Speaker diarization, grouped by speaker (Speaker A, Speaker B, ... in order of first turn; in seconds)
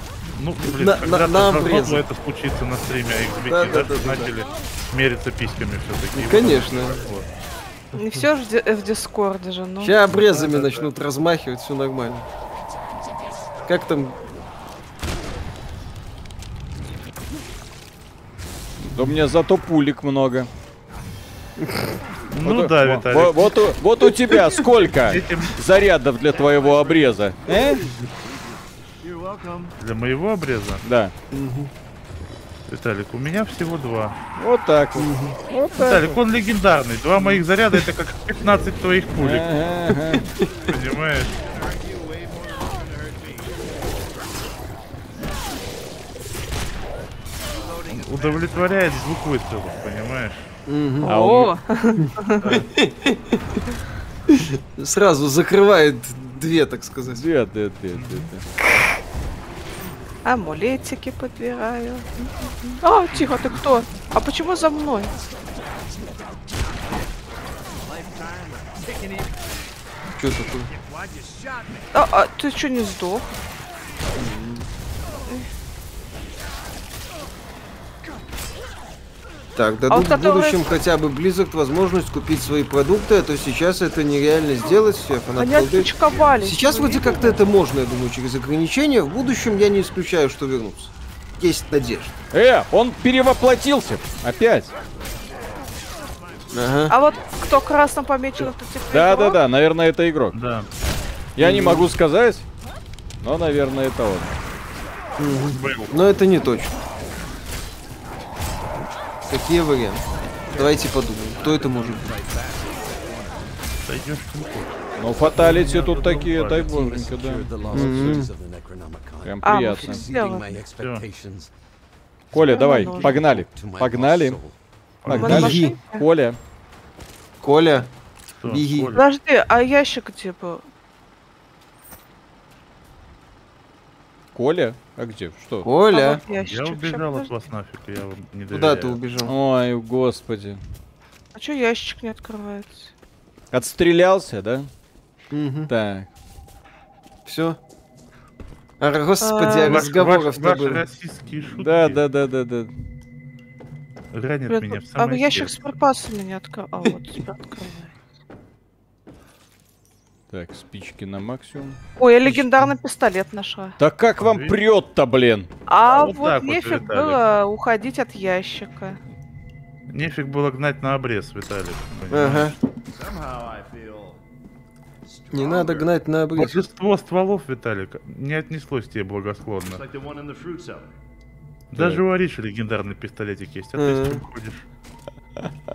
Speaker A: 0.3-7.3, 10.3-10.9, 22.3-23.6, 24.9-25.6, 29.8-30.8, 32.7-34.2, 35.8-39.5, 40.7-41.3, 47.9-50.5, 52.4-52.7, 57.9-58.3, 100.3-100.7, 105.5-105.9, 113.8-116.9, 120.8-121.0, 125.0-125.5, 128.4-129.0, 136.3-139.0, 149.7-152.0, 154.1-155.7, 164.2-164.6, 165.9-167.2, 169.9-172.6, 176.3-179.8, 181.7-184.7
Speaker B: 0.7-2.0, 3.5-4.3, 6.1-7.1, 7.9-8.2, 9.8-12.2, 13.7-14.2, 24.3-24.6, 31.3-31.7, 35.0-35.4, 39.9-40.7, 50.7-51.1, 52.7-53.4, 54.3-57.2, 70.2-70.7, 74.1-74.7, 79.5-92.1, 96.5-97.0, 101.4-101.9, 105.2-106.7, 109.3-112.1, 117.7-118.3, 125.1-125.7, 127.4-127.9, 128.5-128.9, 135.6-136.2, 138.5-139.3, 145.3-145.7, 147.2-147.6, 148.8-150.8, 162.2-162.7, 172.1-172.6, 175.3-176.6, 183.8-184.2
Speaker C: 7.9-10.0, 51.0-52.6, 60.2-65.1, 71.9-73.3, 79.9-80.7, 85.4-87.3, 96.9-99.4, 119.4-120.6, 122.4-123.2, 125.1-126.0, 128.9-130.6, 135.9-137.3, 141.3-142.9, 149.2-149.9, 154.5-157.9, 162.0-163.8, 165.7-169.0
Speaker D: 18.8-20.5, 22.4-27.9, 30.8-31.1, 34.4-36.2, 39.1-40.3, 51.0-51.5, 57.0-58.5, 92.3-94.7, 98.9-100.4, 101.3-102.5, 103.2-104.4, 115.0-118.2, 119.2-120.0, 122.3-124.4, 125.0-126.4, 134.3-135.7, 139.2-140.6, 143.5-144.7, 145.7-146.1, 151.5-152.7, 160.3-161.8, 163.8-165.5, 181.8-182.0
Speaker E: 26.3-27.2, 28.2-29.7, 41.2-44.0, 47.5-49.1, 67.7-69.3, 70.7-71.9, 86.0-86.3, 95.1-96.8, 110.5-113.5, 172.9-174.2, 175.1-175.9, 179.6-180.9
Speaker F: 116.6-121.5, 122.3-124.5